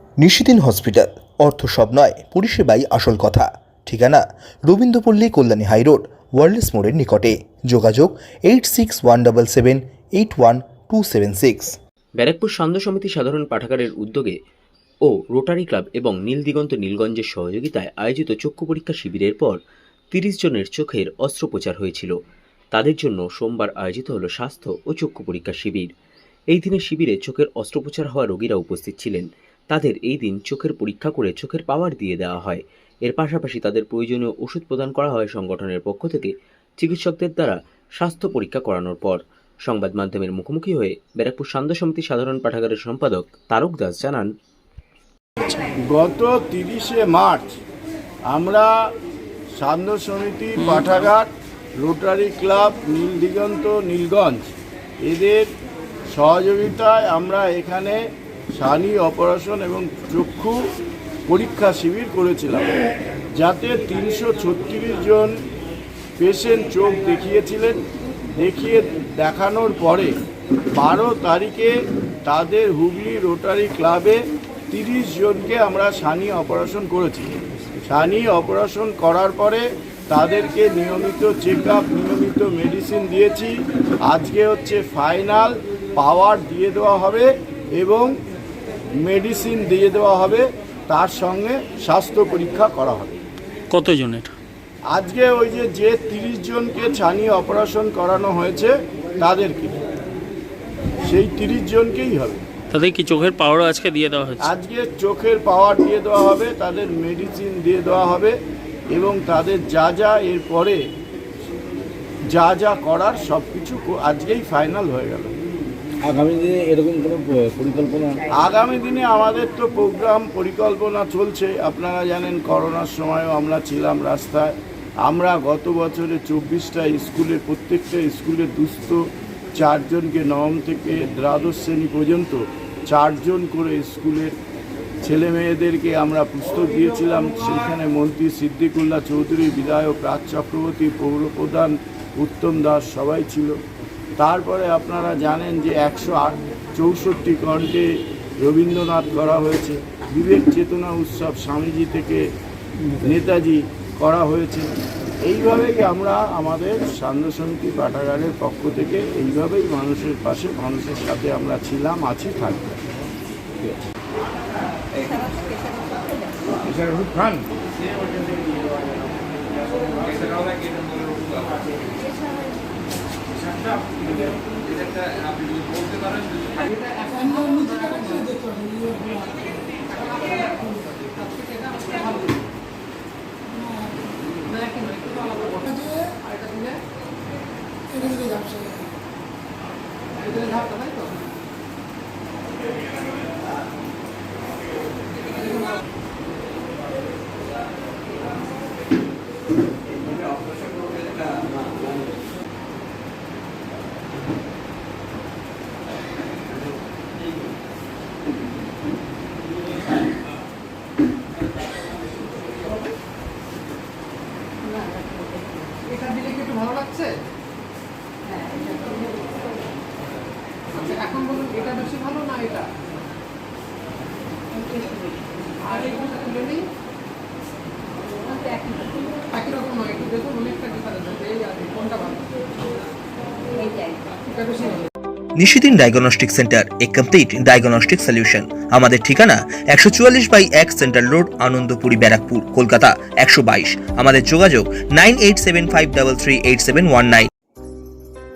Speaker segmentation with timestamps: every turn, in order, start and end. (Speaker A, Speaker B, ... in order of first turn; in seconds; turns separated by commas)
Speaker A: 0.2-11.7, Speaker B: 12.2-14.4, Speaker B: 15.0-19.6, Speaker B: 20.1-22.1, Speaker B: 22.7-25.9, Speaker B: 26.5-44.3, Speaker C: 45.4-47.5, Speaker C: 48.3-48.7, Speaker C: 49.5-51.3, Speaker C: 51.8-54.5, Speaker C: 55.0-55.5, Speaker C: 56.1-58.0, Speaker C: 58.5-60.6, Speaker C: 61.3-62.8, Speaker C: 63.4-65.3, Speaker C: 66.2-67.8, Speaker C: 68.3-70.1, Speaker C: 70.8-71.7, Speaker C: 72.2-74.2, Speaker C: 74.7-77.3, Speaker C: 77.9-88.1, Speaker C: 89.0-93.2, Speaker D: 93.7-94.3, Speaker C: 94.9-99.8, Speaker C: 101.0-102.4, Speaker D: 102.7-104.4, Speaker C: 104.4-108.3, Speaker C: 108.9-110.8, Speaker C: 112.3-115.3, Speaker E: 116.0-118.2, Speaker C: 118.4-129.0, Speaker C: 129.6-134.3, Speaker C: 135.0-143.5, Speaker C: 144.2-147.9, Speaker C: 148.4-152.2, Speaker C: 153.0-154.7, Speaker C: 155.2-162.7, Speaker E: 166.6-167.4, Speaker F: 176.9-178.2, Speaker F: 181.2-182.0, Speaker F: 184.6-185.7, Speaker F: 216.1-217.1, Speaker F: 221.0-222.6, Speaker F: 226.0-226.6, Speaker F: 229.8-231.5, Speaker A: 235.4-247.3